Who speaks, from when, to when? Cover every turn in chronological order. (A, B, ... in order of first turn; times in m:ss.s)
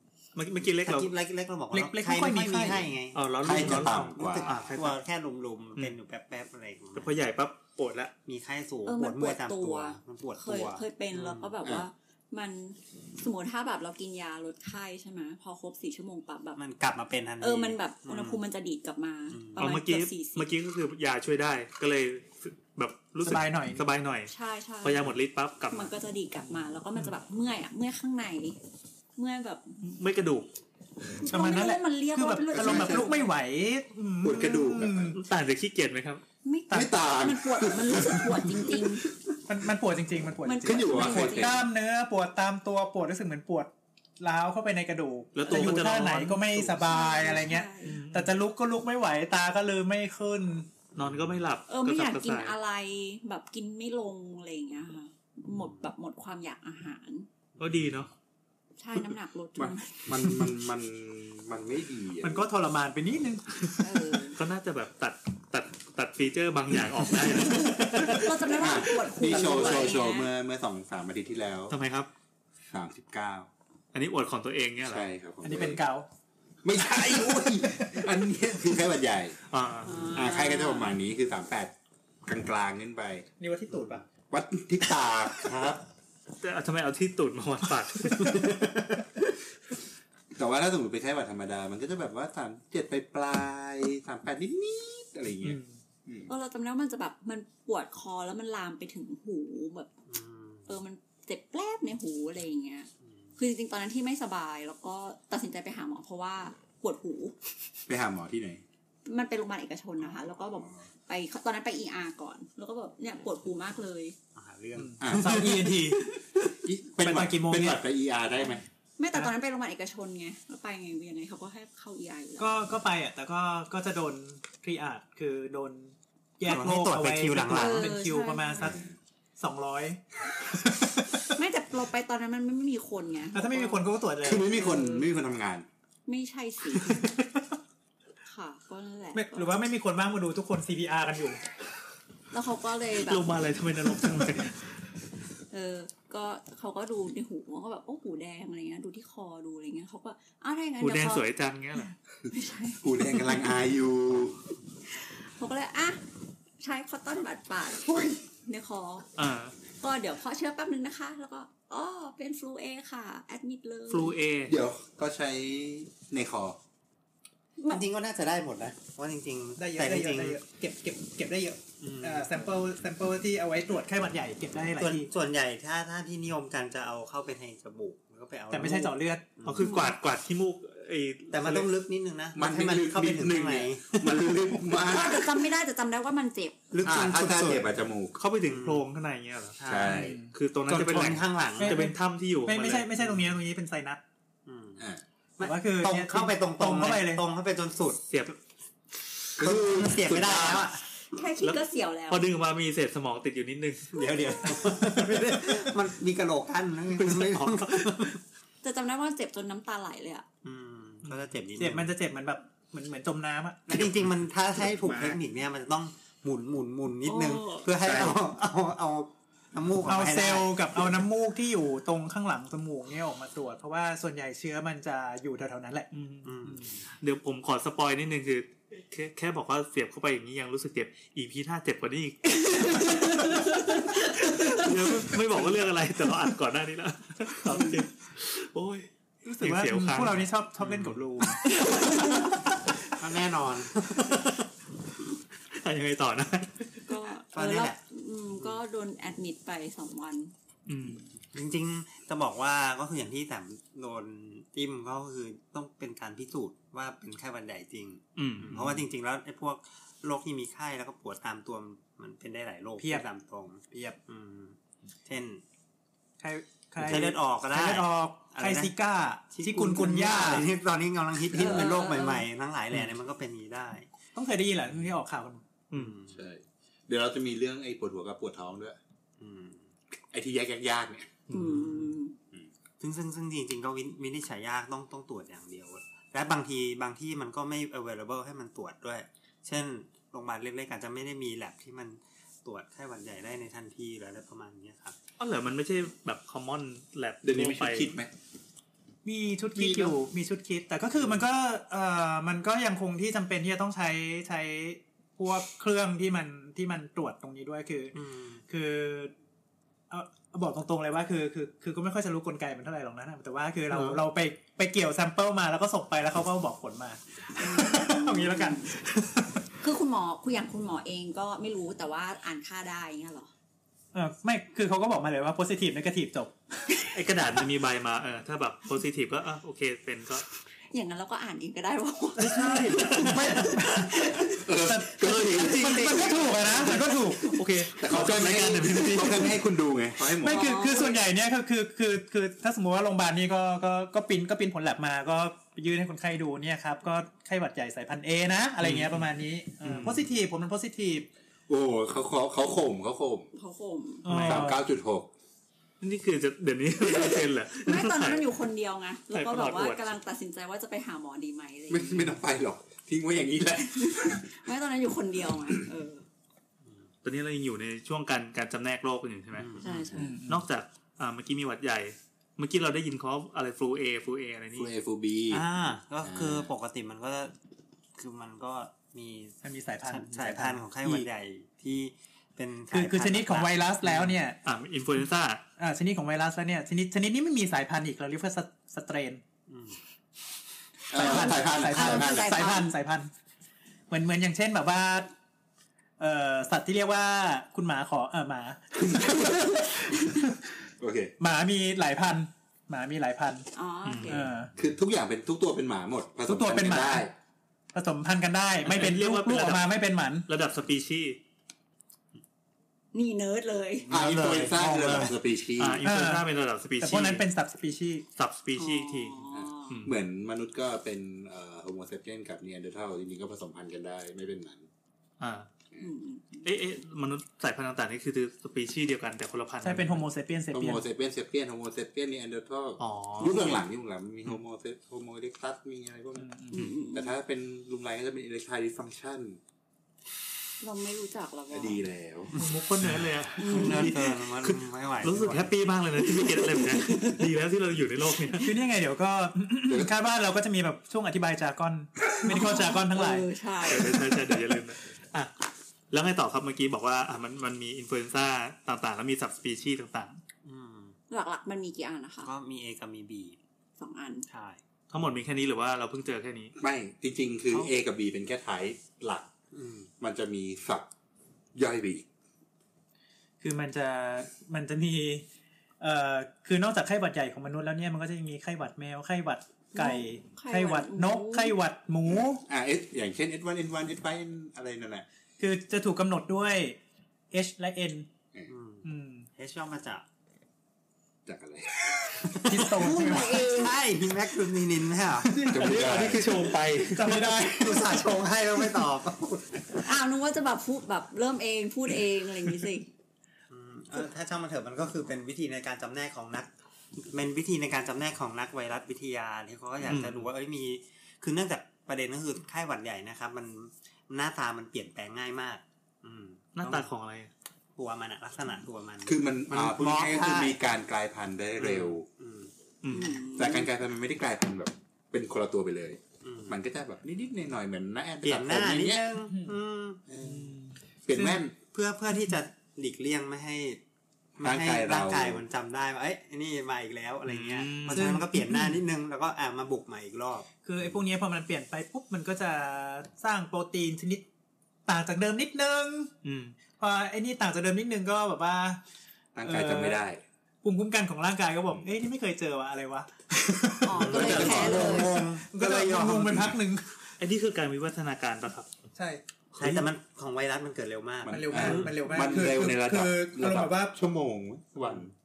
0:00.4-0:01.1 A
0:00.8-0:07.2 B
0:01.7-0:02.9 C
0:03.2-0:05.0 A
0:03.4-0:04.6 D
0:07.0-0:08.1 A
0:08.3-0:11.6 B
0:08.8-0:16.6 E
0:16.6-0:18.4 B
0:17.4-0:20.5 E
0:19.3-0:19.7 B
0:19.6-0:24.3 A
0:23.2-0:23.8 C
0:24.3-0:25.2 E
0:24.8-0:25.9 A
0:25.7-0:28.6 E
0:29.2-0:29.8 E
0:29.8-0:30.5 A
0:31.2-0:33.2 E
0:31.3-0:35.2 C
0:32.5-0:33.1 D
0:34.2-0:35.2 D
0:35.2-0:36.2 A
0:36.4-0:39.1 E
0:36.7-0:39.0 D
0:39.5-0:50.7 C
0:40.4-0:41.7 E
0:40.6-0:41.6 D
0:45.4-0:46.9 A
0:46.8-0:48.0 E
0:47.8-0:48.4 A
0:51.0-0:52.6 A
0:51.0-0:51.4 B
0:51.7-0:57.3 E
0:55.5-0:55.9 B
0:57.6-0:58.0 B
0:57.6-0:58.1 A
0:58.8-1:00.5 E
0:59.6-1:02.5 D
1:02.2-1:04.2 C
1:03.8-1:04.4 E
1:04.4-1:08.2 A
1:07.4-1:08.3 C
1:08.1-1:10.3 E
1:08.6-1:11.8 D
1:11.7-1:12.1 A
1:12.7-1:13.5 D
1:13.9-1:15.0 A
1:14.8-1:15.8 D
1:15.4-1:16.1 C
1:16.6-1:19.4 D
1:17.1-1:18.1 C
1:19.5-1:20.0 A
1:19.8-1:21.0 E
1:20.1-1:21.7 D
1:22.2-1:23.3 D
1:23.4-1:24.0 C
1:23.7-1:24.0 B
1:24.3-1:25.8 D
1:25.5-1:25.8 B
1:26.4-1:28.7 A
1:28.3-1:28.7 B
1:30.4-1:36.3 D
1:35.4-1:35.8 A
1:36.3-1:39.9 E
1:40.1-1:40.8 B
1:40.7-1:47.4 E
1:43.0-1:43.3 B
1:47.9-1:48.6 D
1:49.1-1:54.2 E
1:54.4-1:55.7 B
1:54.8-1:56.2 C
1:55.0-1:55.6 D
1:56.6-1:58.6 D
1:57.0-1:57.8 C
1:59.0-2:02.6 E
2:02.4-2:08.8 C
2:06.4-2:07.9 B
2:07.5-2:08.8 E
2:08.6-2:08.9 D
2:09.4-2:11.3 C
2:11.3-2:13.9 E
2:13.3-2:14.6 C
2:14.2-2:15.7 D
2:14.4-2:15.1 E
2:16.1-2:17.1 E
2:16.8-2:17.2 C
2:18.3-2:19.6 E
2:19.1-2:21.4 C
2:22.3-2:23.4 E
2:23.0-2:24.8 A
2:25.5-2:33.5 E
2:30.8-2:31.9 A
2:32.8-2:34.4 D
2:34.9-2:36.0 E
2:36.6-2:39.1 E
2:39.2-2:39.6 A
2:39.8-2:44.2 E
2:43.9-2:44.6 A
2:44.5-2:46.6 D
2:47.6-2:47.8 E
2:47.7-2:50.4 B
2:49.6-2:55.1 C
2:51.8-2:52.3 B
2:54.8-2:59.8 B
2:58.5-2:59.3 C
2:59.4-3:01.7 A
2:59.6-2:59.9 E
3:01.3-3:04.8 B
3:02.4-3:05.4 D
3:04.8-3:06.6 E
3:06.7-3:07.7 B
3:06.8-3:08.2 D
3:08.2-3:09.6 A
3:08.4-3:08.8 B
3:09.6-3:10.1 B
3:09.6-3:10.2 D
3:09.9-3:10.3 C
3:10.3-3:12.9 A
3:10.7-3:11.8 B
3:11.6-3:14.0 C
3:13.0-3:13.3 B
3:14.5-3:14.9 B
3:15.4-3:18.0 B
3:15.4-3:17.2 C
3:18.1-3:18.4 A
3:19.4-3:20.7 D
3:19.4-3:20.8 B
3:21.1-3:22.3 E
3:21.4-3:23.9 A
3:23.9-3:28.2 B
3:26.9-3:28.2 A
3:28.6-3:30.2 E
3:30.4-3:31.9 B
3:31.6-3:33.8 C
3:33.7-3:41.0 B
3:33.7-3:35.2 D
3:37.0-3:37.6 A
3:37.8-3:38.2 D
3:39.9-3:45.9 C
3:45.9-3:58.9 A
3:46.2-3:46.8 B
3:59.2-4:01.4 C
3:59.4-4:00.3 A
4:00.6-4:01.0 B
4:01.4-4:02.5 A
4:02.8-4:04.1 B
4:03.8-4:04.4 A
4:05.5-4:07.0 A
4:06.9-4:10.3 E
4:07.3-4:07.8 B
4:10.7-4:11.1 A
4:11.3-4:25.4 B
4:18.2-4:18.8 A
4:22.8-4:23.1 C
4:26.2-4:30.5 C
4:26.8-4:28.8 B
4:29.3-4:33.9 B
4:31.3-4:32.3 E
4:34.2-4:35.4 C
4:35.7-4:36.2 B
4:36.1-4:38.8 D
4:39.2-4:39.7 B
4:40.1-4:41.2 D
4:41.3-4:41.6 A
4:41.3-4:42.2 E
4:41.4-4:41.9 B
4:42.8-4:55.0 B
4:55.2-4:58.0 A
4:57.2-4:58.1 D
4:59.0-5:08.0 C
4:59.6-5:00.0 D
5:08.0-5:08.4 B
5:08.5-5:09.1 C
5:09.9-5:19.4 C
5:17.4-5:18.7 E
5:19.6-5:23.3 E
5:23.9-5:26.9 C
5:26.9-5:30.3 A
5:30.7-5:33.5 E
5:32.2-5:37.3 C
5:32.3-5:33.3 B
5:32.4-5:33.6 A
5:34.4-5:36.0 D
5:35.0-5:39.4 A
5:37.8-5:40.6 D
5:40.2-5:51.1 C
5:40.3-5:41.0 E
5:48.6-5:49.1 A
5:49.6-5:50.1 A
5:51.5-5:53.3 D
5:53.3-5:54.1 E
5:54.0-5:54.6 C
5:54.1-5:54.5 A
5:54.2-5:55.1 D
5:55.8-5:58.2 A
5:57.6-6:02.2 E
5:59.1-6:00.0 A
6:01.7-6:04.3 D
6:03.6-6:06.1 E
6:07.0-6:09.5 A
6:09.4-6:10.1 B
6:09.6-6:10.2 E
6:10.0-6:10.4 C
6:10.3-6:14.7 A
6:14.5-6:15.4 D
6:15.3-6:17.3 B
6:16.0-6:16.5 D
6:18.0-6:24.0 B
6:19.4-6:21.1 C
6:22.7-6:24.4 C
6:24.4-6:25.4 A
6:25.6-6:29.2 C
6:29.5-6:29.8 B
6:30.9-6:32.4 D
6:30.9-6:33.1 C
6:31.0-6:32.8 E
6:33.9-6:35.1 C
6:36.0-6:40.3 C
6:38.8-6:39.6 D
6:40.8-6:41.1 D
6:41.2-6:43.5 C
6:43.5-6:44.3 E
6:43.8-6:44.2 A
6:44.1-6:44.5 C
6:44.6-6:47.1 D
6:46.2-6:47.1 C
6:47.7-6:50.3 C
6:48.6-6:49.7 A
6:50.3-6:51.2 A
6:52.9-6:53.9 E
6:53.9-6:55.8 D
6:53.9-6:55.1 B
6:55.6-6:57.2 A
6:55.8-6:56.3 C
6:56.8-6:58.0 C
6:58.2-6:59.2 A
6:58.6-6:59.8 E
6:59.3-7:04.7 D
7:05.2-7:05.5 A
7:05.8-7:06.5 E
7:06.4-7:10.1 A
7:09.6-7:10.8 C
7:10.5-7:16.3 D
7:12.8-7:13.6 A
7:16.2-7:16.6 C
7:16.5-7:17.1 E
7:16.9-7:19.4 D
7:20.6-7:21.8 E
7:21.5-7:22.3 D
7:22.4-7:28.6 A
7:23.4-7:24.0 E
7:23.4-7:25.6 B
7:26.0-7:27.3 E
7:28.4-7:33.3 C
7:32.2-7:34.5 E
7:33.6-7:35.3 A
7:35.9-7:40.2 A
7:40.4-7:41.0 B
7:41.1-7:42.3 E
7:42.2-7:43.4 B
7:43.8-7:44.3 E
7:44.3-7:44.6 B
7:44.9-7:46.6 A
7:46.6-7:49.3 D
7:49.5-7:49.9 B
7:50.0-7:50.9 D
7:51.6-7:52.1 D
7:53.4-7:55.2 C
7:55.8-8:02.4 C
7:59.8-8:01.6 E
8:02.1-8:05.0 D
8:05.4-8:06.8 C
8:07.3-8:08.1 C
8:08.5-8:10.0 B
8:08.8-8:09.3 C
8:11.3-8:12.6 D
8:12.2-8:15.5 B
8:12.4-8:13.5 C
8:12.8-8:13.8 E
8:15.2-8:16.3 C
8:15.5-8:16.4 D
8:15.5-8:17.3 A
8:16.8-8:18.1 C
8:17.1-8:19.9 B
8:19.8-8:22.9 E
8:23.5-8:36.9 B
8:29.8-8:30.3 A
8:36.6-8:37.3 A
8:37.8-8:40.6 B
8:39.0-8:42.1 D
8:41.6-8:42.5 B
8:42.8-8:43.2 A
8:42.9-8:43.7 E
8:43.3-8:49.2 D
8:46.2-8:46.6 B
8:48.2-8:50.1 B
8:50.1-8:51.6 D
8:51.1-8:51.4 C
8:51.7-8:53.8 B
8:54.4-9:00.5 B
8:54.4-8:55.4 D
8:57.3-8:58.2 A
8:57.9-8:58.8 C
9:00.6-9:04.2 C
9:04.9-9:06.1 C
9:06.2-9:06.6 A
9:06.8-9:08.8 C
9:09.4-9:10.2 D
9:09.4-9:10.0 C
9:10.6-9:17.0 C
9:13.8-9:15.3 E
9:13.9-9:16.5 B
9:14.1-9:15.0 D
9:17.2-9:18.7 A
9:19.0-9:19.2 C
9:19.6-9:22.5 B
9:21.2-9:25.1 D
9:21.3-9:24.0 C